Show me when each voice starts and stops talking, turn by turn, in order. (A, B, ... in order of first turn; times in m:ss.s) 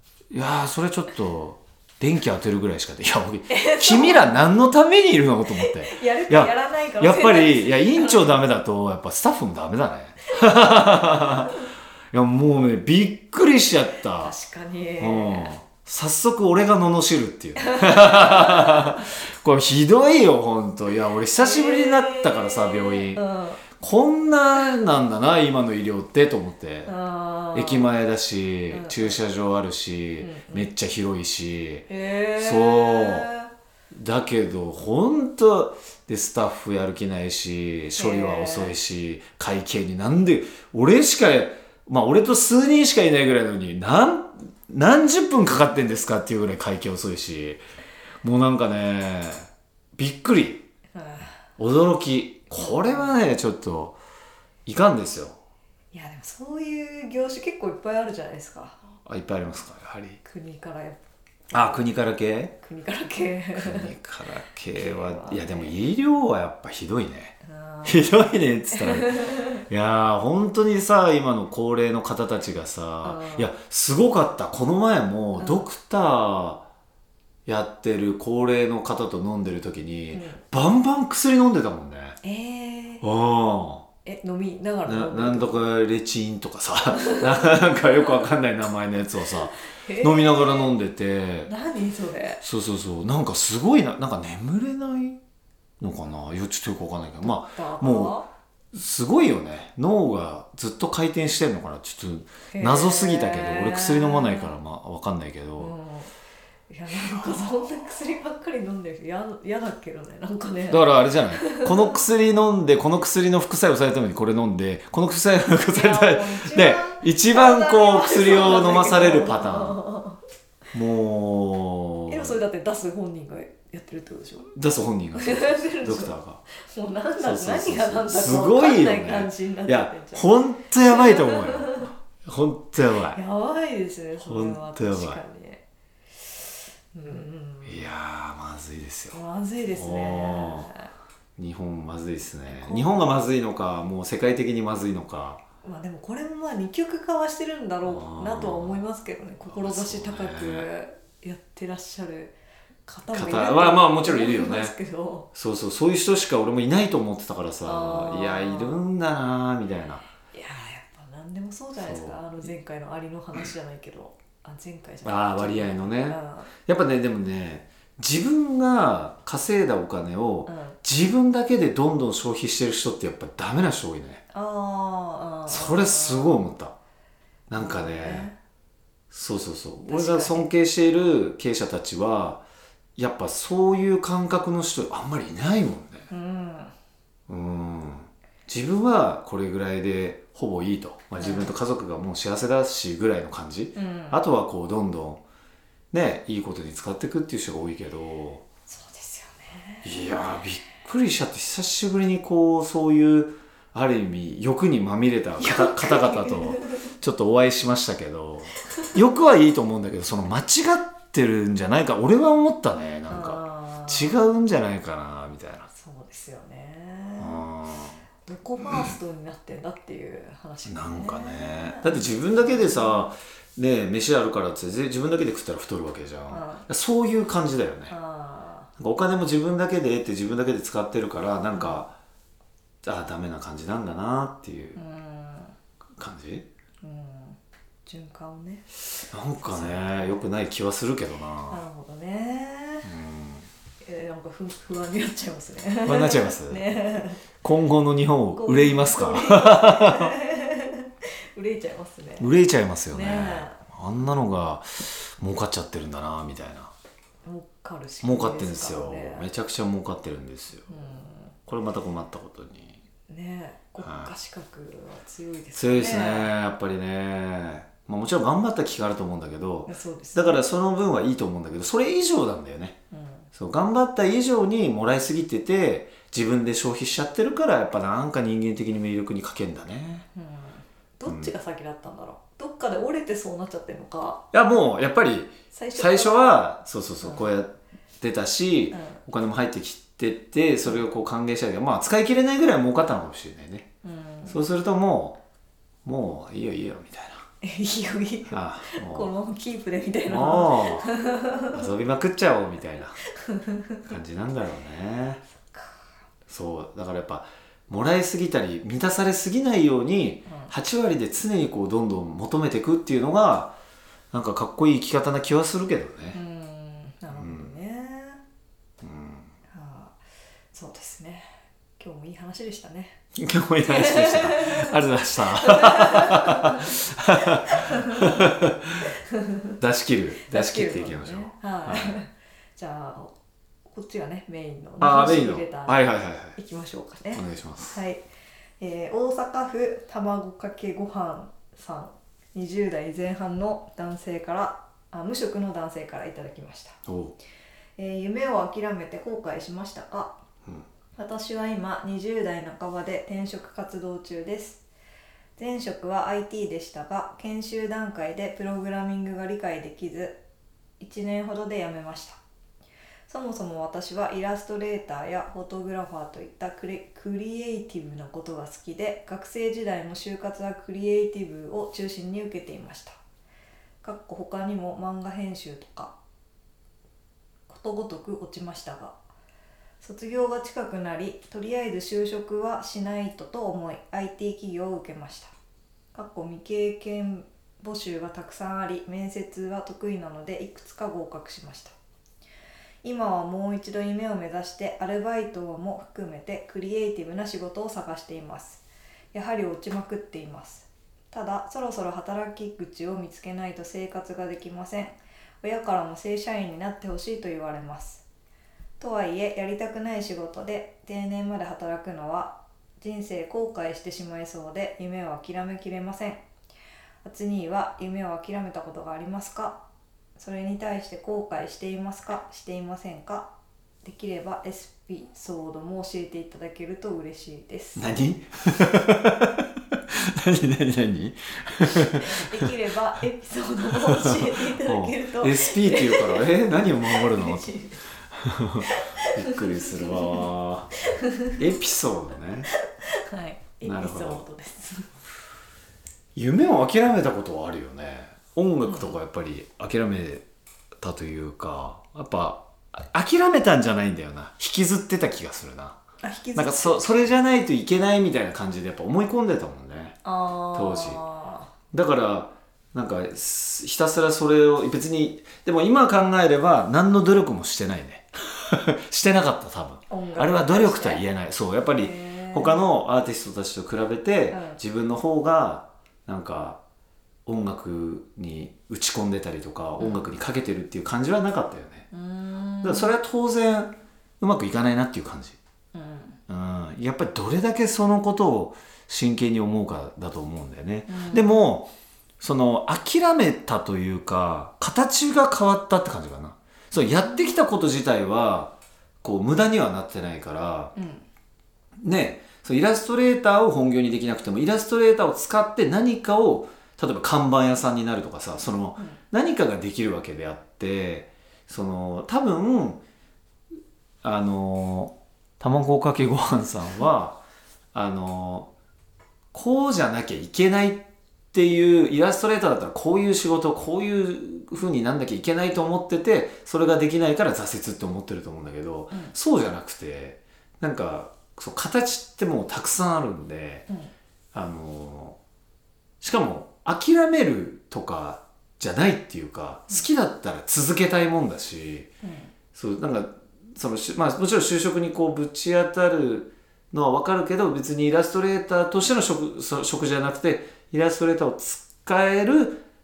0:00.3-0:14.3 A
0:03.5-0:04.5 B
0:05.5-0:08.4 B
0:10.4-0:11.6 B
0:14.1-0:15.5 B
0:15.0-0:26.9 A
0:17.5-0:19.1 B
0:21.4-0:23.6 B
0:26.8-0:27.9 B
0:27.5-0:33.3 A
0:28.7-0:29.2 B
0:30.2-0:30.7 B
0:31.9-0:33.5 B
0:33.9-0:47.6 A
0:38.0-0:38.8 B
0:48.2-0:50.6 A
0:50.9-0:51.4 B
0:51.6-0:54.0 A
0:52.5-0:53.2 B
0:54.6-0:55.4 A
0:55.9-0:58.8 B
0:59.0-1:00.2 A
1:00.2-1:01.9 B
1:01.5-1:02.5 A
1:02.6-1:03.9 B
1:03.6-1:16.6 A
1:04.7-1:05.7 B
1:07.4-1:08.1 B
1:08.7-1:09.5 B
1:13.0-1:13.5 B
1:15.4-1:15.7 B
1:17.4-1:22.2 A
1:20.1-1:20.4 B
1:22.2-1:23.0 B
1:23.0-1:23.8 A
1:24.0-1:25.6 B
1:24.8-1:31.5 A
1:27.1-1:28.2 B
1:29.8-1:30.7 B
1:31.5-1:32.4 B
1:32.4-1:35.2 A
1:35.8-1:38.2 A
1:37.3-1:38.3 B
1:38.7-1:45.7 A
1:42.5-1:44.6 B
1:45.6-1:46.1 B
1:46.7-1:52.0 B
1:50.7-1:59.8 A
1:55.6-2:00.2 B
2:00.7-2:02.4 A
2:02.1-2:04.5 B
2:04.5-2:06.4 A
2:05.1-2:11.8 B
2:07.2-2:13.2 A
2:13.1-2:15.6 B
2:14.2-2:15.2 A
2:16.3-2:17.9 B
2:17.6-2:20.7 A
2:19.1-2:20.9 B
2:21.4-2:25.4 A
2:22.4-2:22.9 B
2:25.6-2:35.3 B
2:27.8-2:28.8 A
2:29.5-2:30.7 A
2:33.1-2:34.7 A
2:35.3-2:40.0 A
2:37.6-2:38.8 B
2:40.2-2:46.5 B
2:41.8-2:42.2 A
2:45.0-2:54.2 A
2:50.4-2:50.8 B
2:54.3-2:56.4 B
2:55.5-2:56.7 A
2:57.5-2:58.3 A
2:57.5-2:58.4 B
2:59.1-3:02.4 A
2:59.8-3:00.5 B
3:03.0-3:06.1 A
3:06.1-3:06.7 B
3:07.3-3:15.2 A
3:11.2-3:11.5 B
3:13.8-3:14.2 B
3:15.9-3:18.4 A
3:18.7-3:20.4 B
3:19.8-3:35.7 A
3:25.4-3:26.8 B
3:33.1-3:34.2 B
3:35.8-3:37.4 B
3:37.2-3:38.0 A
3:38.2-3:43.1 B
3:40.6-3:47.9 A
3:46.3-3:46.6 B
3:47.9-3:48.7 B
3:48.8-3:51.9 A
3:51.5-3:51.8 B
3:52.8-3:54.8 A
3:54.7-3:55.5 B
3:56.0-3:56.4 A
3:56.8-3:58.7 B
3:59.1-4:01.6 A
3:59.4-4:00.2 B
4:01.5-4:02.9 B
4:02.8-4:03.5 A
4:03.8-4:07.2 B
4:05.8-4:06.7 A
4:07.4-4:10.1 A
4:08.3-4:12.3 B
4:12.2-4:16.7 A
4:12.9-4:13.6 B
4:17.2-4:19.3 B
4:18.0-4:20.7 A
4:20.7-4:21.3 B
4:21.4-4:22.8 A
4:23.1-4:26.3 B
4:23.8-4:24.1 A
4:25.5-4:32.8 A
4:29.6-4:30.4 B
4:32.9-4:33.3 B
4:33.3-4:40.1 A
4:40.1-4:44.2 B
4:41.1-4:41.3 A
4:44.3-4:53.6 A
4:45.5-4:46.4 B
4:47.0-4:47.3 B
4:48.7-4:49.0 B
4:53.8-4:54.4 B
4:54.3-4:55.2 A
4:55.8-4:57.2 A
4:57.4-5:01.7 B
4:58.3-4:59.1 A
5:00.0-5:00.9 A
5:01.5-5:03.0 A
5:03.2-5:03.8 B
5:03.8-5:05.2 A
5:05.4-5:05.8 B
5:06.3-5:13.6 A
5:10.3-5:10.5 B
5:14.1-5:16.2 A
5:16.1-5:18.2 B
5:17.1-5:17.5 A
5:18.8-5:19.3 A
5:19.5-5:20.0 B
5:20.5-5:23.0 B
5:23.2-5:28.7 A
5:23.6-5:24.8 B
5:25.4-5:26.8 B
5:27.5-5:28.3 B
5:29.1-5:29.6 B
5:29.6-5:32.0 A
5:30.2-5:33.1 B
5:33.7-5:38.0 B
5:34.8-5:36.4 A
5:37.1-5:37.8 A
5:38.6-5:46.8 B
5:46.9-5:47.1 A
5:47.8-5:50.2 B
5:51.0-5:54.6 B
5:55.4-6:00.2 B
6:00.8-6:02.2 B
6:03.1-6:13.0 B
6:13.8-6:15.9 B
6:17.5-6:19.0 B
6:19.8-6:25.3 B
6:25.9-6:31.7 B
6:32.8-6:48.0 B
6:48.8-6:56.2 B
6:57.0-6:59.6 B
7:00.2-7:03.3 B
7:03.8-7:07.9 B
7:07.8-7:09.3 A
7:09.9-7:12.5 A
7:11.7-7:17.8 B
7:13.9-7:17.5 A
7:18.1-7:20.7 A
7:18.6-7:20.3 B
7:20.9-7:21.4 B
7:21.3-7:22.5 A
7:22.8-7:24.9 B
7:23.6-7:24.2 A
7:26.1-7:30.2 A
7:28.6-7:29.0 B
7:30.8-7:35.8 A
7:36.0-7:37.0 B
7:36.3-7:40.0 A
7:40.0-7:41.5 B
7:40.5-7:41.0 A
7:41.7-7:56.6 A
7:49.9-7:51.0 B
7:51.7-7:52.6 B
7:54.3-7:54.6 B
7:57.2-8:01.8 A
7:59.8-8:00.0 B
8:01.9-8:02.9 B
8:02.6-8:05.4 A
8:05.7-8:06.2 B
8:06.3-8:20.7 A
8:10.9-8:11.4 B
8:17.0-8:17.4 B
8:20.7-8:21.0 B
8:21.8-8:32.8 A
8:34.0-8:37.2 A
8:37.7-8:38.5 A
8:39.3-8:53.6 A
8:54.3-8:55.2 A
8:56.0-9:01.9 A
9:02.0-9:02.3 B
9:02.5-9:12.6 A